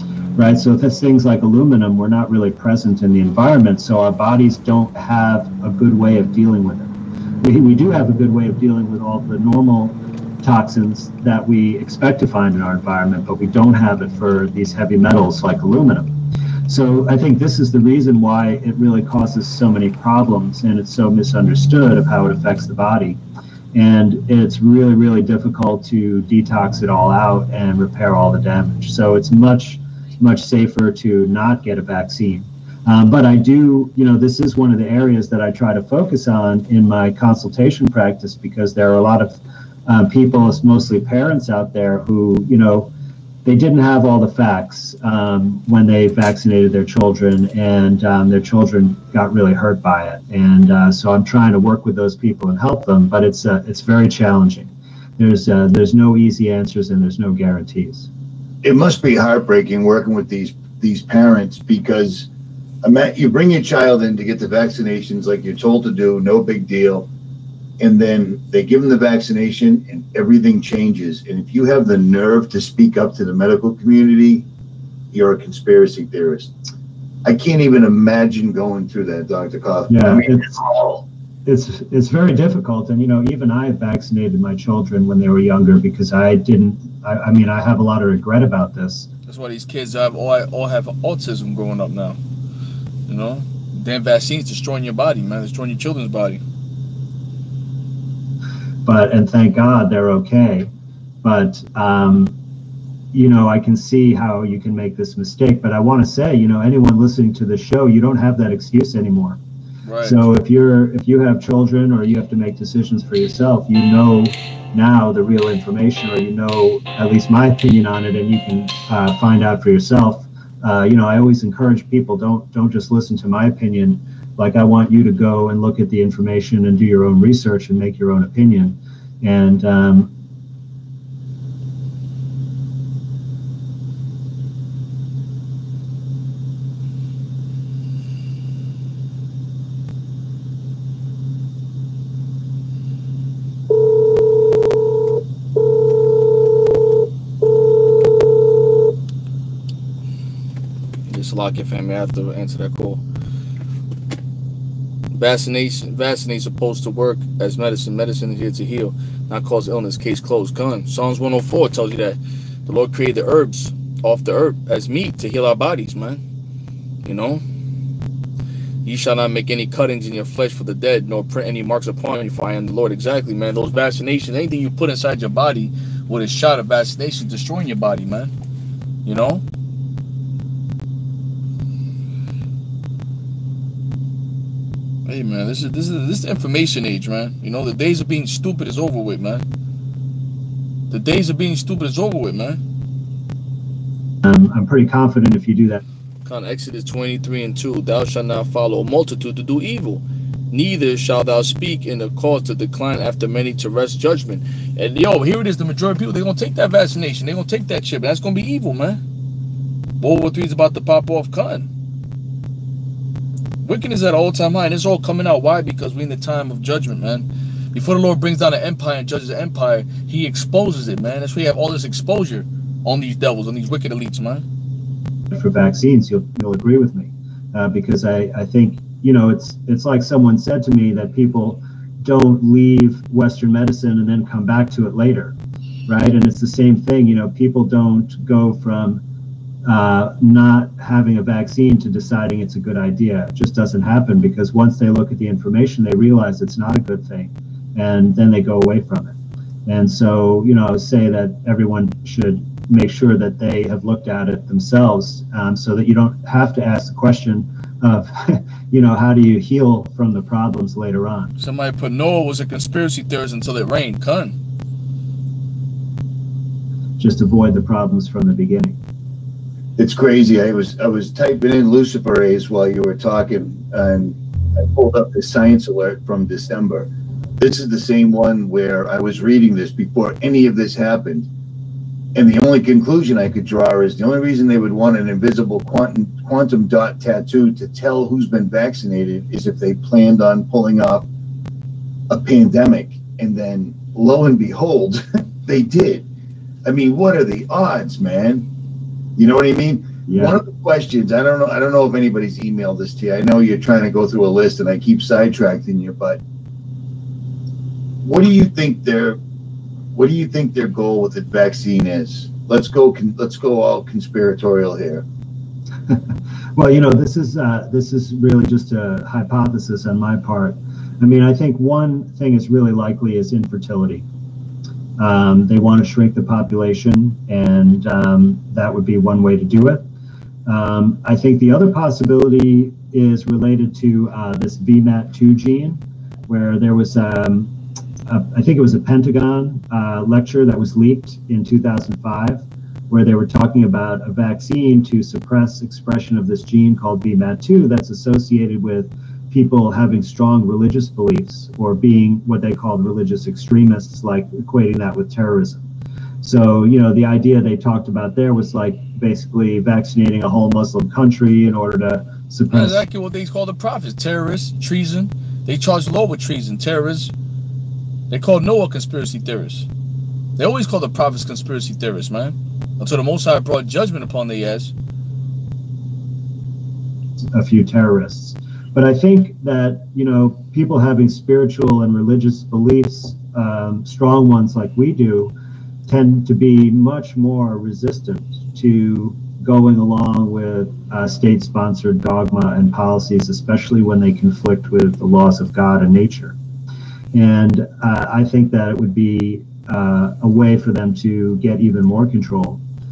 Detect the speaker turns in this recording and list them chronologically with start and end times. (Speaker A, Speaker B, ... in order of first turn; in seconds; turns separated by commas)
Speaker A: 0.4-16.1, Speaker A: 16.7-23.2, Speaker A: 23.7-42.9, Speaker A: 43.4-58.1, Speaker B: 58.6-62.3, Speaker B: 62.8-67.1, Speaker B: 67.8-74.5, Speaker B: 75.1-76.5, Speaker B: 77.2-81.1, Speaker A: 79.9-80.6, Speaker A: 81.5-89.1, Speaker C: 89.3-92.2, Speaker C: 93.1-96.4, Speaker A: 98.8-100.7, Speaker A: 101.2-102.3, Speaker A: 103.1-109.4, Speaker C: 109.8-110.2, Speaker A: 110.0-130.1, Speaker C: 151.1-153.0, Speaker C: 155.1-166.2, Speaker C: 167.0-167.4, Speaker C: 168.8-178.3, Speaker C: 179.0-179.4, Speaker C: 185.0-189.4, Speaker C: 190.9-192.6, Speaker A: 194.2-195.8, Speaker C: 196.2-209.0, Speaker C: 210.0-211.7, Speaker C: 213.6-224.4, Speaker A: 225.3-235.3, Speaker A: 235.9-239.0, Speaker A: 239.6-249.1, Speaker A: 249.7-261.3, Speaker C: 261.4-264.4, Speaker A: 267.0-268.8, Speaker B: 269.8-281.3, Speaker B: 282.1-291.1, Speaker B: 292.1-296.1, Speaker B: 296.6-298.5, Speaker B: 299.2-306.2, Speaker A: 300.1-300.4, Speaker B: 308.0-309.2, Speaker B: 309.9-315.0, Speaker A: 316.6-324.1, Speaker A: 325.0-329.8, Speaker A: 330.4-337.5, Speaker A: 338.1-355.6, Speaker A: 356.2-362.8, Speaker C: 362.5-367.1, Speaker C: 368.1-369.7, Speaker C: 370.4-374.7, Speaker A: 377.3-385.3, Speaker A: 385.9-396.4, Speaker A: 397.1-402.6